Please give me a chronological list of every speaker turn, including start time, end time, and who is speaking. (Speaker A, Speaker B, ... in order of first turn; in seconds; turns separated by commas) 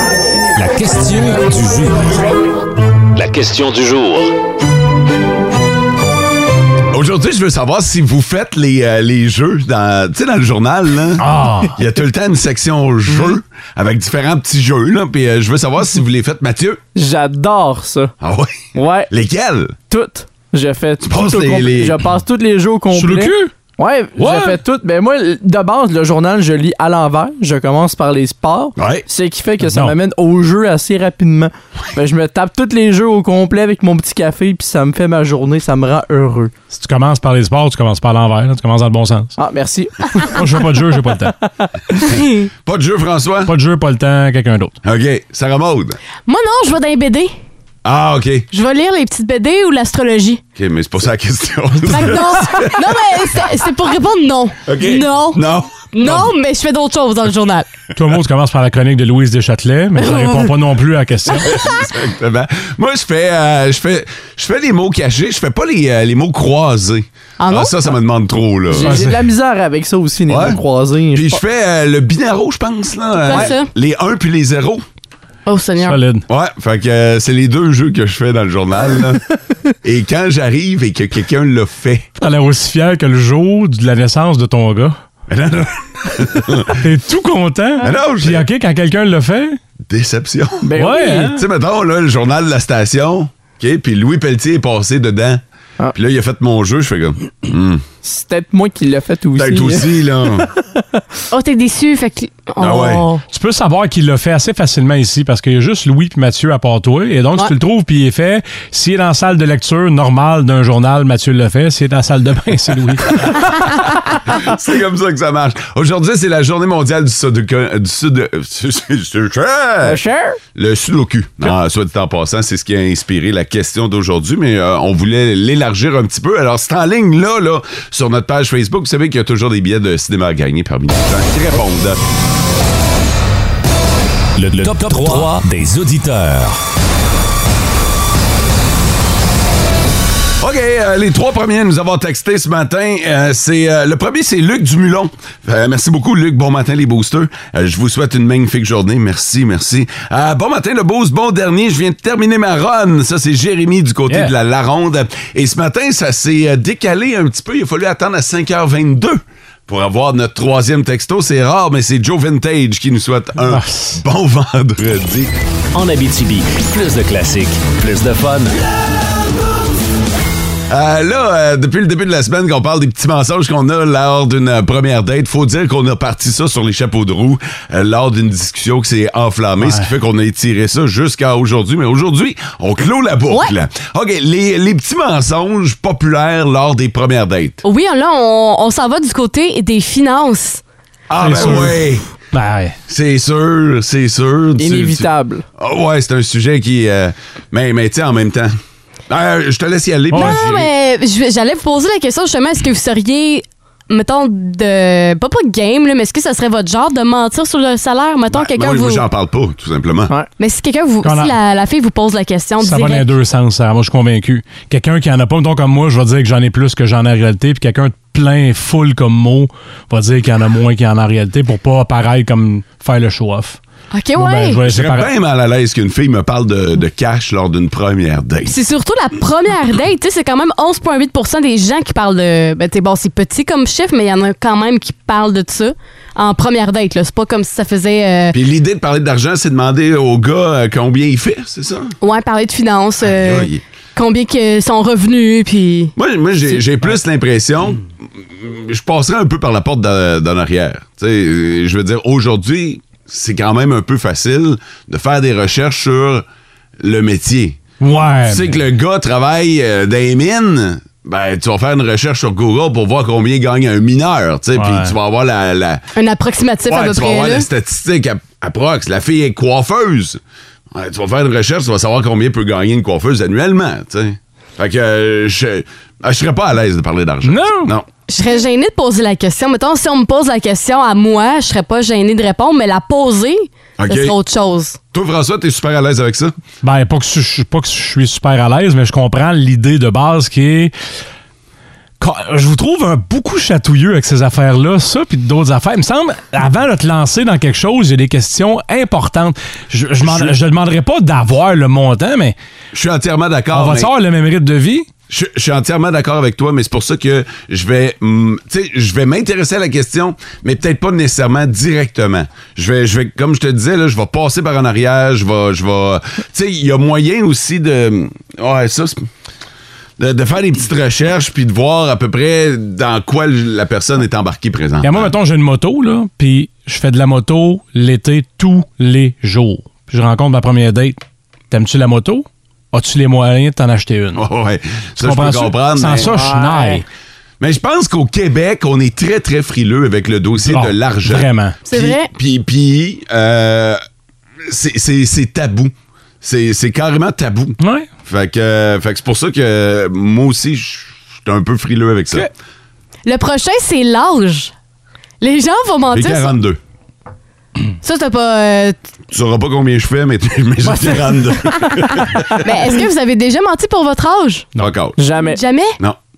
Speaker A: 0.6-2.2, Speaker A: 3.1-4.3, Speaker B: 6.9-16.8, Speaker C: 11.2-11.7, Speaker D: 16.9-18.1, Speaker B: 18.2-19.8, Speaker D: 18.7-19.1, Speaker D: 19.9-36.5, Speaker B: 21.0-22.0, Speaker C: 22.9-23.5, Speaker C: 24.2-24.6, Speaker B: 28.8-29.0, Speaker C: 29.6-29.9, Speaker C: 36.7-39.3, Speaker D: 39.4-40.4, Speaker C: 40.2-41.3, Speaker B: 42.6-43.5, Speaker C: 43.5-44.8, Speaker B: 44.8-46.0, Speaker E: 46.3-47.3, Speaker B: 47.8-48.5, Speaker E: 48.5-50.4, Speaker B: 50.5-52.9, Speaker E: 51.9-57.7, Speaker B: 54.6-56.3, Speaker C: 58.0-61.6, Speaker E: 60.0-60.5, Speaker B: 61.5-69.0, Speaker E: 67.4-67.8, Speaker D: 68.7-71.4, Speaker C: 68.8-69.2, Speaker B: 70.3-70.6, Speaker B: 71.1-74.8, Speaker E: 73.2-73.7, Speaker E: 75.5-76.0, Speaker C: 75.8-76.2, Speaker B: 76.3-79.2, Speaker B: 79.8-82.1, Speaker C: 82.2-84.9, Speaker B: 85.3-86.8, Speaker C: 86.7-89.6, Speaker B: 87.8-88.4, Speaker B: 89.8-90.7, Speaker D: 90.6-91.3, Speaker C: 90.8-91.4, Speaker B: 91.2-95.4, Speaker B: 95.9-97.8, Speaker D: 98.0-100.0, Speaker B: 99.3-100.5, Speaker D: 100.6-101.0, Speaker E: 101.3-103.2, Speaker B: 102.6-103.0, Speaker C: 103.3-113.5, Speaker B: 114.2-120.0, Speaker D: 119.8-120.4, Speaker B: 120.5-132.0, Speaker A: 134.4-136.6, Speaker B: 134.6-135.3, Speaker B: 140.4-165.4, Speaker C: 163.4-164.0, Speaker A: 165.7-168.6, Speaker B: 170.7-187.6, Speaker C: 179.6-179.9, Speaker E: 183.3-183.5, Speaker E: 187.6-190.6, Speaker B: 191.1-192.1, Speaker C: 191.2-191.8, Speaker C: 192.3-192.8, Speaker B: 192.9-198.5, Speaker D: 194.6-195.4, Speaker B: 199.1-200.7, Speaker C: 200.1-200.4, Speaker E: 200.1-209.1, Speaker B: 208.3-210.1, Speaker E: 210.4-213.1, Speaker C: 211.0-211.3, Speaker C: 212.6-223.6, Speaker E: 223.9-224.6, Speaker C: 224.2-225.1, Speaker B: 224.6-228.6, Speaker E: 228.5-238.4, Speaker B: 238.3-242.0, Speaker E: 242.0-245.9, Speaker B: 243.0-243.6, Speaker B: 246.0-256.2, Speaker B: 256.8-257.6, Speaker C: 257.8-258.5, Speaker B: 258.2-265.8, Speaker C: 264.6-264.9, Speaker E: 265.9-267.5, Speaker B: 266.6-270.2, Speaker B: 270.7-277.9, Speaker C: 277.2-277.7, Speaker E: 278.1-284.8, Speaker B: 283.8-284.1, Speaker B: 284.9-286.3, Speaker C: 286.6-290.7, Speaker C: 292.0-302.3, Speaker B: 300.0-300.4, Speaker B: 302.7-303.9, Speaker C: 303.5-304.9, Speaker B: 305.1-319.1, Speaker B: 320.0-325.1, Speaker C: 324.8-334.2, Speaker B: 334.1-336.1, Speaker C: 335.0-336.8, Speaker D: 336.0-336.8, Speaker B: 337.4-343.8, Speaker C: 340.4-341.6, Speaker E: 341.6-342.1, Speaker B: 344.4-352.3, Speaker C: 347.6-347.9, Speaker E: 353.1-354.5, Speaker E: 355.2-356.4, Speaker B: 355.9-356.6, Speaker E: 357.8-358.8, Speaker B: 359.1-362.4, Speaker E: 362.4-364.5, Speaker B: 364.6-365.0, Speaker D: 365.0-365.4, Speaker E: 365.2-365.8